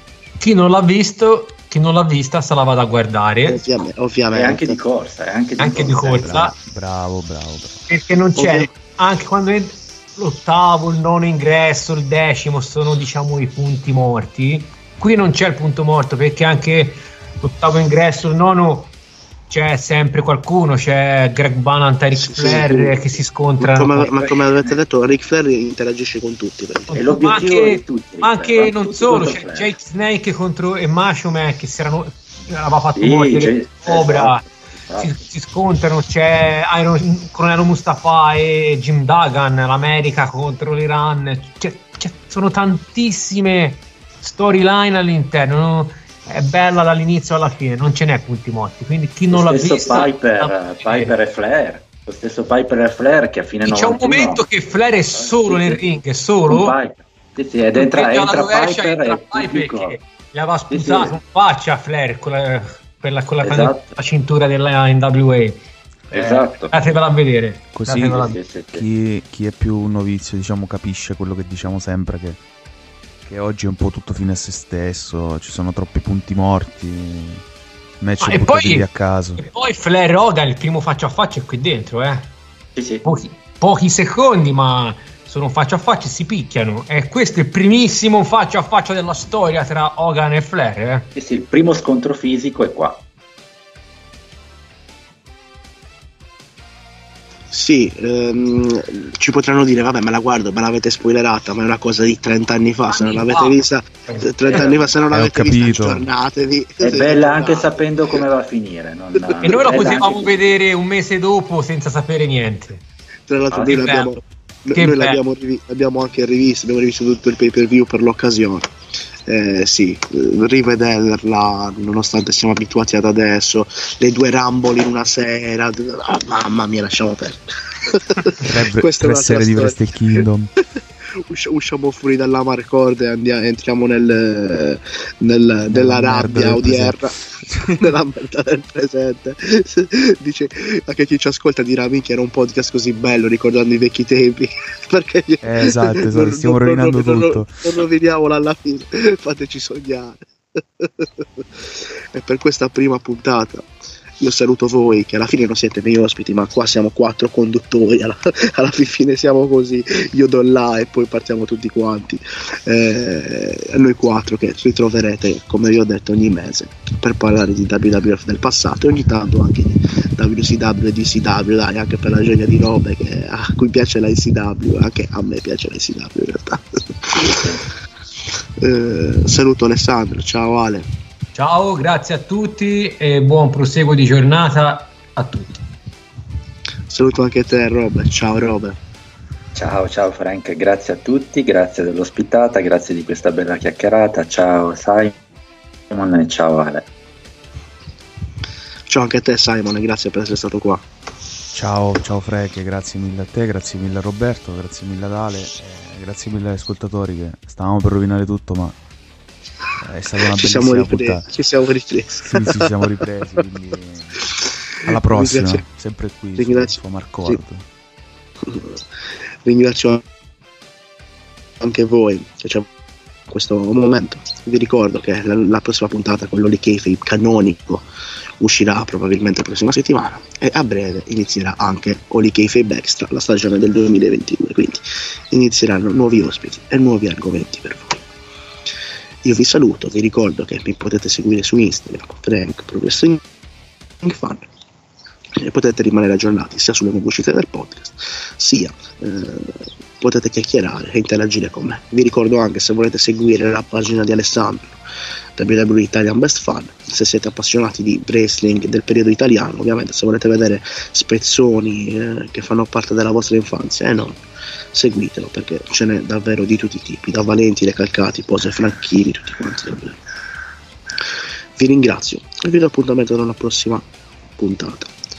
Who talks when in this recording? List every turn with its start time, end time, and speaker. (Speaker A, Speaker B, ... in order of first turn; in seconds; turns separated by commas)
Speaker A: 0.4-3.6, Speaker B: 3.4-4.8, Speaker C: 4.3-6.4, Speaker A: 5.6-6.5, Speaker D: 6.2-7.8, Speaker A: 7.9-18.9, Speaker B: 8.4-8.7, Speaker A: 19.5-24.2, Speaker B: 22.1-23.0, Speaker B: 23.6-26.9, Speaker A: 26.9-34.4, Speaker C: 26.9-29.7, Speaker C: 33.0-35.2, Speaker A: 35.0-51.1, Speaker C: 49.3-54.4, Speaker A: 53.6-56.7, Speaker C: 55.1-60.0, Speaker A: 57.8-68.4, Speaker C: 60.7-61.2, Speaker C: 63.4-63.9, Speaker C: 66.1-66.8, Speaker D: 67.7-72.4, Speaker C: 68.0-68.9, Speaker D: 73.2-77.4, Speaker D: 78.0-79.4, Speaker A: 78.2-82.4, Speaker C: 82.8-83.0, Speaker A: 83.0-91.1, Speaker C: 91.1-93.0, Speaker B: 97.5-108.2, Speaker A: 102.9-104.7, Speaker C: 104.4-104.8, Speaker D: 105.1-106.0, Speaker C: 106.8-110.3, Speaker B: 109.2-109.6, Speaker A: 109.4-112.8, Speaker B: 113.3-118.7, Speaker C: 113.5-113.8, Speaker A: 113.5-114.2, Speaker A: 114.7-115.2, Speaker B: 119.3-129.8, Speaker D: 128.4-130.5, Speaker B: 131.1-153.7, Speaker D: 135.7-137.9, Speaker D: 145.4-147.6, Speaker B: 154.2-177.6, Speaker C: 177.2-177.6, Speaker B: 178.6-180.9, Speaker A: 181.3-185.5, Speaker B: 186.9-188.8, Speaker C: 189.5-195.1, Speaker C: 195.9-196.9, Speaker B: 198.9-200.8, Speaker D: 201.5-208.8, Speaker D: 209.8-211.2, Speaker B: 210.2-212.7, Speaker D: 212.2-214.2, Speaker B: 214.2-215.6, Speaker D: 214.8-217.6, Speaker B: 216.4-217.4, Speaker B: 218.4-218.8, Speaker B: 219.4-220.0, Speaker B: 221.6-222.7, Speaker B: 223.3-227.9, Speaker B: 228.4-238.0, Speaker B: 239.2-243.2, Speaker B: 244.0-244.5, Speaker B: 245.4-254.8, Speaker B: 255.4-264.2, Speaker B: 264.7-270.0, Speaker B: 271.6-274.9